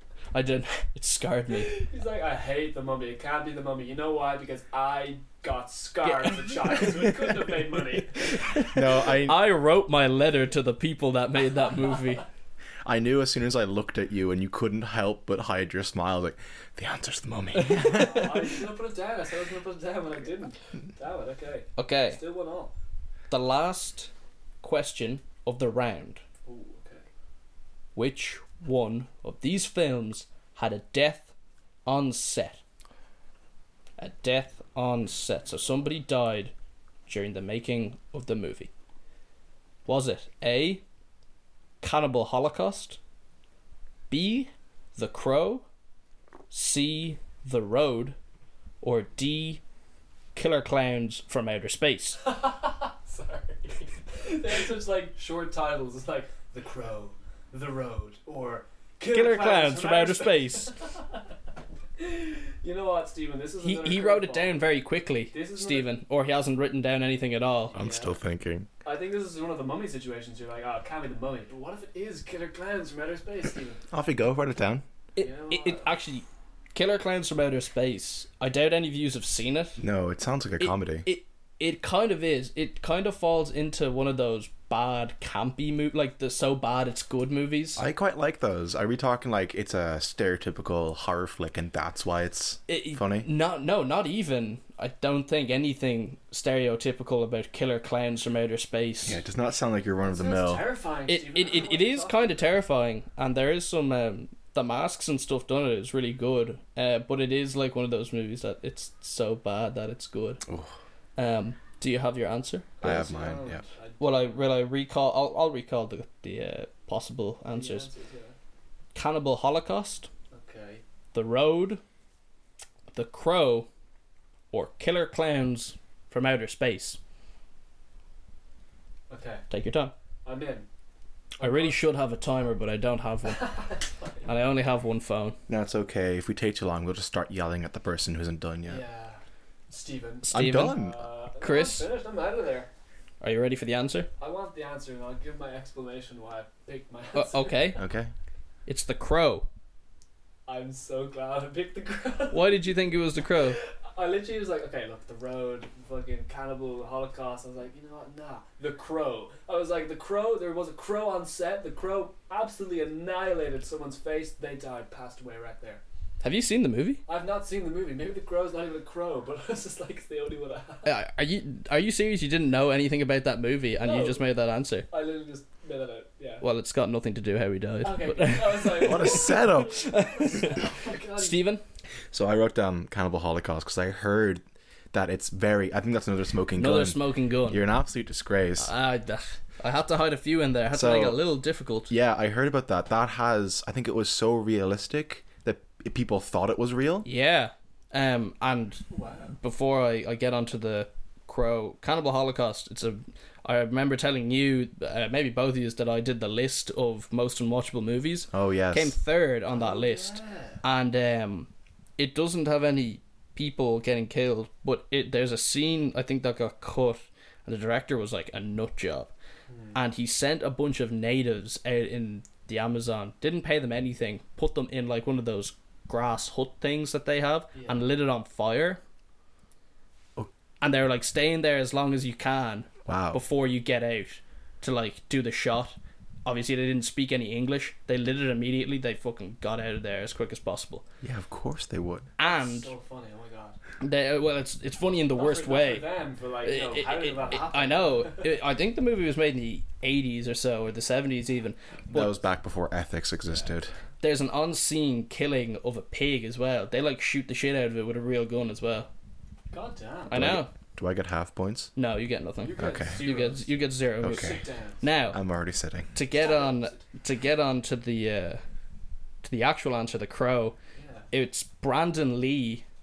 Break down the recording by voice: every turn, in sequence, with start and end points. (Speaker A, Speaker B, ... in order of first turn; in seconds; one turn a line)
Speaker A: 0.3-1.8
Speaker B: 1.5-8.5
Speaker A: 6.0-7.2
Speaker A: 8.0-12.2
Speaker C: 8.7-9.5
Speaker C: 12.8-18.4
Speaker A: 17.6-18.2
Speaker B: 17.6-22.7
Speaker A: 21.8-22.2
Speaker A: 23.3-24.1
Speaker A: 24.6-26.2
Speaker B: 26.4-27.1
Speaker A: 27.9-31.3
Speaker A: 31.9-32.6
Speaker A: 34.0-36.5
Speaker A: 37.1-38.7
Speaker A: 39.9-40.8
Speaker A: 41.8-43.0
Speaker A: 44.1-45.6
Speaker A: 46.5-48.1
Speaker A: 48.8-49.6
Speaker A: 50.3-52.2
Speaker B: 52.2-61.2
Speaker A: 59.1-60.7
Speaker B: 62.0-64.6
Speaker A: 63.6-67.7
Speaker B: 65.3-65.9
Speaker B: 67.7-68.1
Speaker C: 67.7-68.7
Speaker B: 68.8-73.8
Speaker C: 73.9-74.8
Speaker A: 75.2-79.8
Speaker B: 75.2-75.9
Speaker C: 79.8-81.0
Speaker A: 80.6-87.8
Speaker C: 87.8-93.3
Speaker A: 92.7-99.2
Speaker C: 99.0-100.7
Speaker B: 100.0-102.5
Speaker A: 101.1-110.4
Speaker C: 110.5-110.7
Speaker A: 111.2-112.7
Speaker B: 112.8-114.5
Speaker C: 112.8-113.6
Speaker A: 114.0-117.9
Speaker B: 117.5-118.3
Speaker A: 118.9-120.1
Speaker B: 120.3-120.8
Speaker A: 121.1-121.8
Speaker A: 122.9-123.7
Speaker A: 124.5-127.0
Speaker B: 129.1-129.4
Speaker A: 129.5-129.9
Speaker B: 130.2-130.7
Speaker A: 131.4-133.6
Speaker B: 131.4-131.8
Speaker B: 133.2-134.3
Speaker A: 134.2-135.4
Speaker C: 135.5-138.8
Speaker B: 138.7-142.7
Speaker A: 140.2-140.8
Speaker C: 140.3-141.0
Speaker A: 141.4-141.9
Speaker A: 143.2-144.1
Speaker B: 144.2-147.8
Speaker A: 147.1-147.8
Speaker C: 147.8-148.1
Speaker A: 148.7-149.5
Speaker B: 150.5-165.8
Speaker A: 152.3-153.6
Speaker A: 166.2-167.0
Speaker B: 167.1-170.9
Speaker A: 170.8-174.8
Speaker B: 173.8-174.3
Speaker B: 174.9-176.4
Speaker A: 176.4-181.6
Speaker B: 177.8-181.4
Speaker C: 178.8-179.9
Speaker C: 182.1-188.7
Speaker A: 186.6-187.6
Speaker A: 188.6-191.9
Speaker C: 190.7-191.2
Speaker C: 191.9-197.1
Speaker A: 197.0-219.1
Speaker B: 198.9-199.3
Speaker C: 208.3-208.9
Speaker B: 209.5-210.6
Speaker B: 219.5-219.8
Speaker A: 219.7-228.8
Speaker B: 227.5-227.8
Speaker A: 230.6-240.8
Speaker C: 232.8-233.2
Speaker C: 241.0-242.1
Speaker A: 242.2-242.7
Speaker B: 242.2-243.6
Speaker A: 243.8-245.9
Speaker B: 245.1-248.3
Speaker A: 246.4-252.1
Speaker C: 251.9-253.7
Speaker B: 253.3-253.7
Speaker A: 254.0-258.9
Speaker B: 259.5-260.3
Speaker A: 260.1-260.5
Speaker C: 260.1-261.7
Speaker A: 261.8-265.2
Speaker B: 262.4-264.8
Speaker C: 262.6-263.0
Speaker C: 264.0-264.4
Speaker C: 265.1-265.9
Speaker A: 265.9-268.4
Speaker B: 266.1-266.8
Speaker A: 269.2-270.6
Speaker B: 270.7-271.1
Speaker A: 271.1-272.6